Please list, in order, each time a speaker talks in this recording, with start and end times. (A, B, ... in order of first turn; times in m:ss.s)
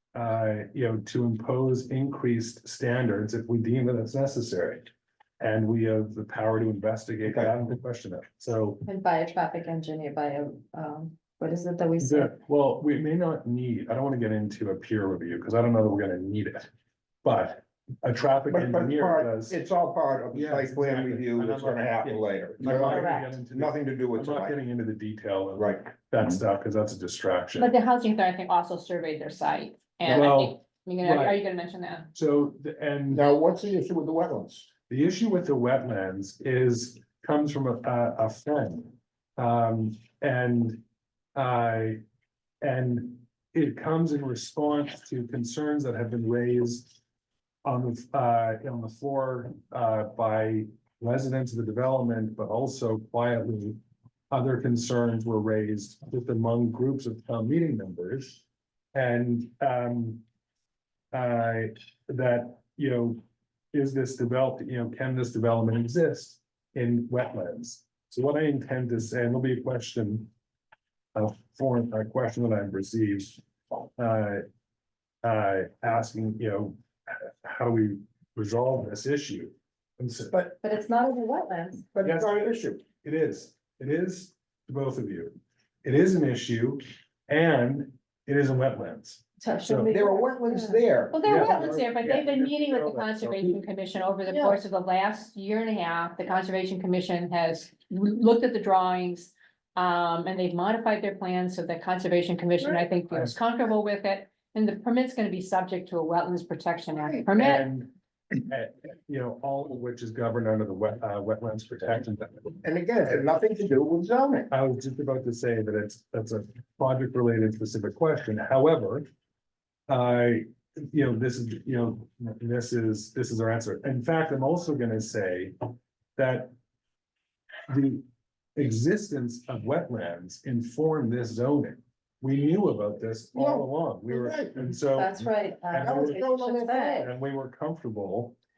0:00.1-0:04.9 A
0:05.4-0:08.8 A
0:07.2-0:07.6 B
0:08.8-0:12.3 C
0:12.0-0:16.7 A
0:17.2-0:19.6 A
0:18.5-0:24.6 B
0:20.3-0:27.7 A
0:22.8-0:23.2 C
0:25.6-0:25.8 B
0:27.6-0:32.1 D
0:30.1-0:31.4 A
0:32.1-0:33.2 A
0:33.1-0:34.7 B
0:34.9-0:40.8 A
0:41.3-0:42.0 A
0:42.6-0:46.9 A
0:47.6-0:53.8 A
0:54.3-1:00.2 A
1:01.1-1:03.2 A
1:03.7-1:10.3 A
1:11.1-1:13.4 A
1:14.0-1:14.4 A
1:15.2-1:20.4 A
1:20.6-1:21.9 C
1:21.9-1:22.8 B
1:22.0-1:29.9 A
1:29.4-1:30.8 C
1:29.8-1:31.6 B
1:31.1-1:47.6 D
1:31.2-1:33.6 A
1:34.3-1:34.6 B
1:47.0-1:47.2 B
1:47.4-1:47.9 A
1:48.5-1:53.2 A
1:52.6-1:54.5 B
1:54.5-1:59.1 A
1:59.9-2:05.6 A
2:06.2-2:06.5 A
2:07.7-2:08.0 A
2:08.6-2:16.2 A
2:13.3-2:14.7 B
2:14.9-2:17.1 C
2:15.8-2:17.1 B
2:17.0-2:18.4 A